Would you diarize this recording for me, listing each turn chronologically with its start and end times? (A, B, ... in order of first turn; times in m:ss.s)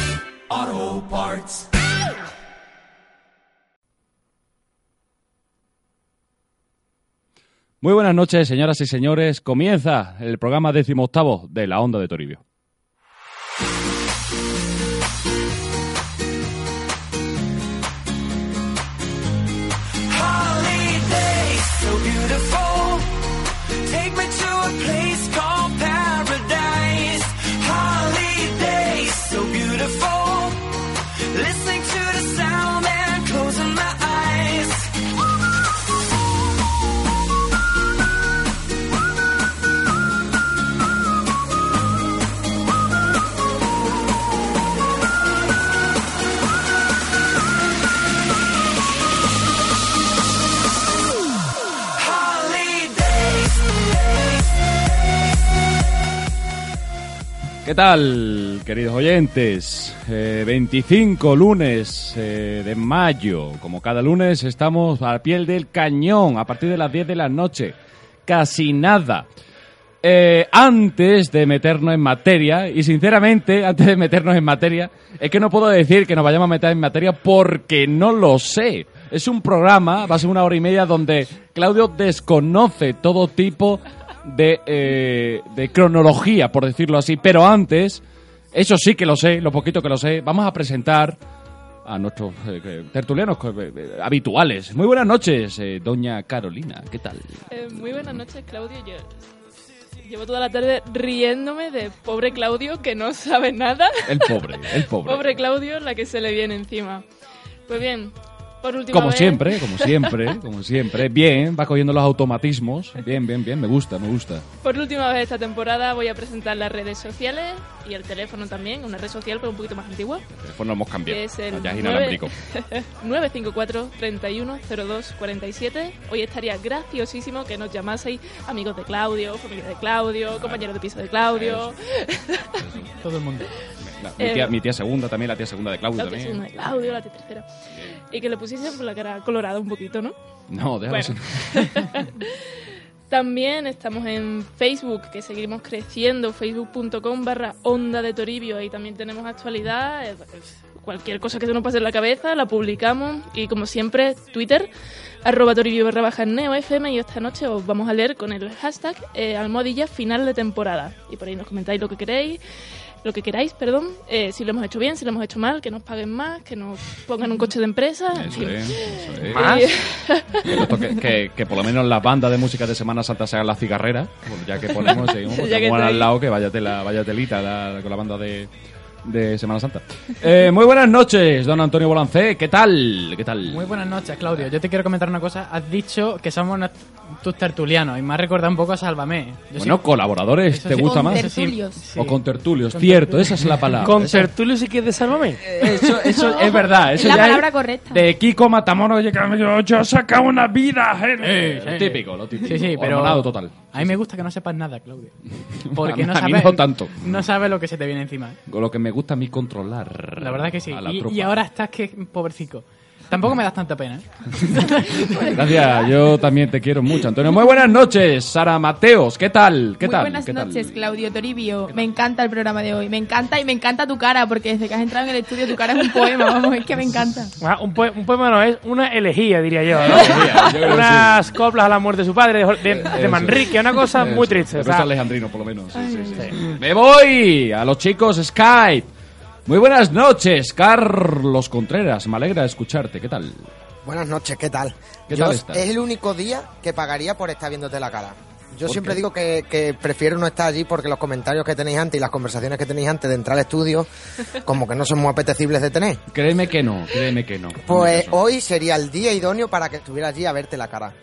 0:00.5-0:01.7 A
0:07.8-0:12.4 B
0:20.1-0:30.7 A
0:31.3-0:34.9 A
0:51.9-0:54.4 A
0:57.6-1:09.3 B
1:10.0-1:31.2 B
1:31.8-1:38.2 B
1:37.5-1:39.0 C
1:40.0-1:47.0 C
1:44.0-1:45.4 B
1:47.7-1:50.3 C
1:48.9-1:54.5 B
1:54.6-2:00.2 C
2:00.3-2:02.3 B
2:01.1-2:12.6 C
2:10.3-2:10.7 B
2:11.3-2:11.7 B
2:12.6-2:12.9 B
2:13.0-2:13.5 D
2:13.8-2:17.0 B
2:14.2-2:14.5 C
2:16.0-2:17.4 C
2:18.1-2:20.2 C
2:20.5-2:21.8 B
2:20.9-2:22.4 C
2:23.1-2:34.7 C
2:35.2-2:42.4 C
2:43.0-2:50.9 C
2:48.1-2:49.7 B
2:49.3-2:49.7 E
2:50.4-2:58.5 B
2:55.1-2:56.1 C
2:59.0-3:03.7 B
3:03.5-3:09.9 D
3:09.6-3:11.3 B
3:10.5-3:12.2 D
3:10.7-3:11.9 F
3:12.0-3:14.3 B
3:12.7-3:13.6 D
3:13.8-3:15.4 E
3:15.4-3:24.0 B
3:15.9-3:18.1 F
3:21.5-3:25.2 D
3:25.6-3:27.3 B
3:25.7-3:28.4 D
3:28.5-3:31.4 B
3:30.2-3:35.2 D
3:34.7-3:40.8 B
3:35.0-3:35.8 F
3:39.8-3:47.3 F
3:47.4-3:54.9 E
3:49.7-3:51.3 B
3:52.6-3:58.9 B
3:59.5-4:03.5 B
4:03.8-4:13.9 G
4:05.1-4:05.7 B
4:08.6-4:09.0 B
4:14.4-4:16.0 G
4:16.1-4:18.2 B
4:17.6-4:20.9 G